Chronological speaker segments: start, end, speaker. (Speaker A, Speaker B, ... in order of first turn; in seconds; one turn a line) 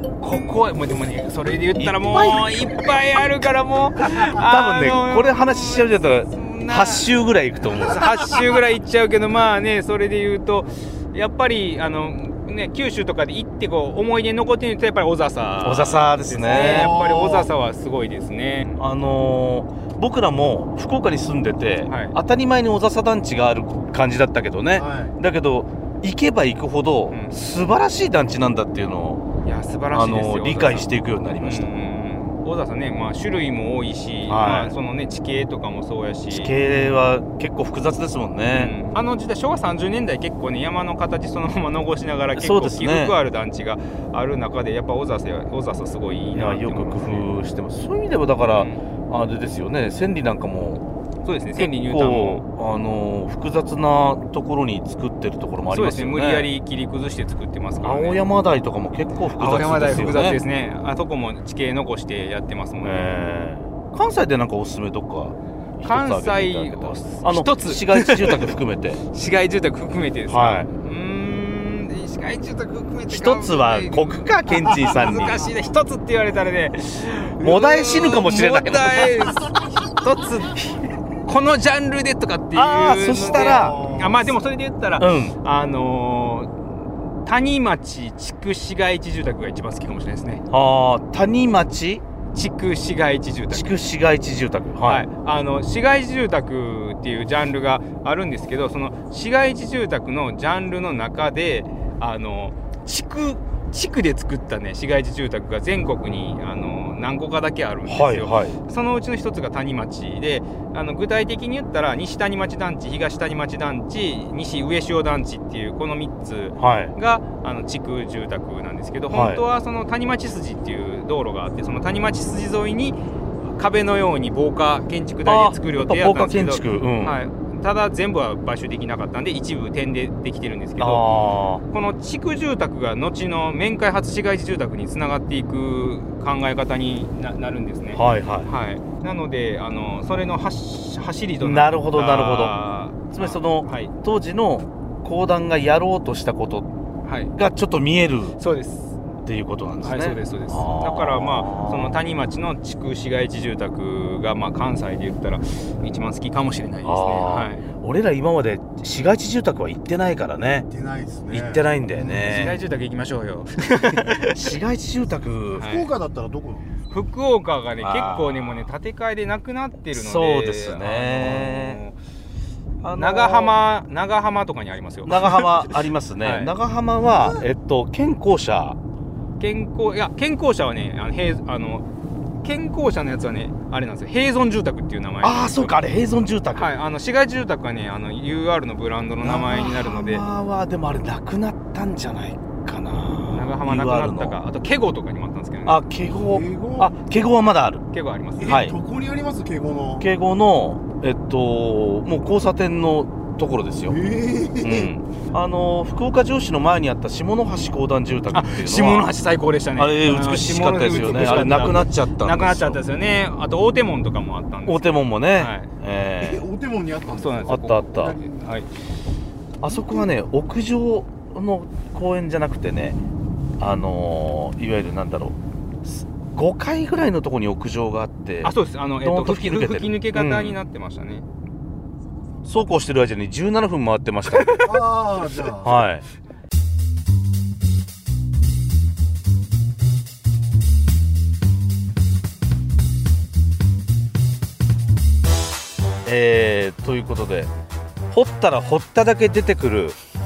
Speaker A: 0.2-7.1
Speaker B: 1.8-2.8
Speaker B: 4.1-8.1
Speaker A: 7.9-18.8
Speaker B: 15.6-16.9
Speaker C: 16.7-17.1
Speaker B: 18.8-29.2
Speaker A: 21.9-22.1
Speaker A: 29.4-30.9
Speaker B: 29.9-31.7
Speaker A: 31.4-36.5
Speaker B: 34.3-34.8
Speaker B: 36.3-38.7
Speaker A: 38.5-47.3
Speaker B: 42.3-43.2
Speaker B: 46.3-50.8
Speaker A: 48.5-48.8
Speaker A: 51.2-52.4
Speaker B: 51.5-56.5
Speaker A: 55.7-58.2
Speaker B: 57.8-60.4
Speaker A: 59.4-63.1
Speaker B: 62.8-69.0
Speaker A: 65.8-68.5
Speaker A: 69.1-86.5
Speaker B: 70.3-70.7
Speaker B: 73.1-75.4
Speaker B: 77.4-79.2
Speaker B: 82.5-83.9
Speaker B: 85.0-85.3
Speaker A: 87.2-90.4
Speaker B: 90.5-92.0
Speaker A: 92.3-93.7
Speaker B: 93.5-95.0
Speaker A: 94.8-123.0
Speaker B: 107.8-108.5
Speaker B: 116.6-116.9
Speaker B: 119.1-119.4
Speaker A: 123.5-131.0
Speaker B: 125.2-127.2
Speaker B: 130.8-131.6
Speaker A: 131.7-143.9
Speaker B: 137.9-138.5
Speaker B: 141.4-142.6
Speaker B: 143.1-146.7
Speaker A: 147.0-147.3
Speaker B: 147.3-148.4
Speaker A: 148.4-149.0
Speaker B: 149.2-152.0
Speaker A: 149.8-157.6
Speaker B: 156.8-160.7
Speaker C: 160.8-161.3
Speaker B: 161.3-162.6
Speaker A: 162.2-164.5
Speaker B: 164.0-165.7
Speaker A: 165.6-165.9
Speaker C: 165.8-166.6
Speaker A: 166.9-171.9
Speaker B: 167.8-168.7
Speaker B: 169.9-171.8
Speaker B: 172.8-173.6
Speaker A: 172.9-175.7
Speaker B: 175.0-178.8
Speaker A: 176.2-176.5
Speaker A: 179.4-181.8
Speaker A: 182.4-185.8
Speaker B: 185.2-186.7
Speaker A: 186.5-190.2
Speaker B: 189.2-194.4
Speaker A: 193.3-195.8
Speaker B: 195.7-197.8
Speaker A: 197.9-198.6
Speaker B: 198.4-198.8
Speaker C: 198.5-199.9
Speaker B: 200.0-204.0
Speaker C: 204.1-204.6
Speaker B: 204.6-209.1
Speaker A: 208.3-215.7
Speaker B: 209.8-212.8
Speaker B: 214.6-216.5
Speaker C: 216.2-217.1
Speaker A: 217.0-218.7
Speaker B: 217.5-218.2
Speaker C: 217.9-218.3
Speaker B: 219.6-223.0
Speaker B: 223.6-230.6
Speaker A: 228.4-231.2
Speaker B: 232.4-234.9
Speaker C: 234.7-235.6
Speaker B: 235.4-236.0
Speaker B: 246.0-247.5
Speaker B: 248.1-249.9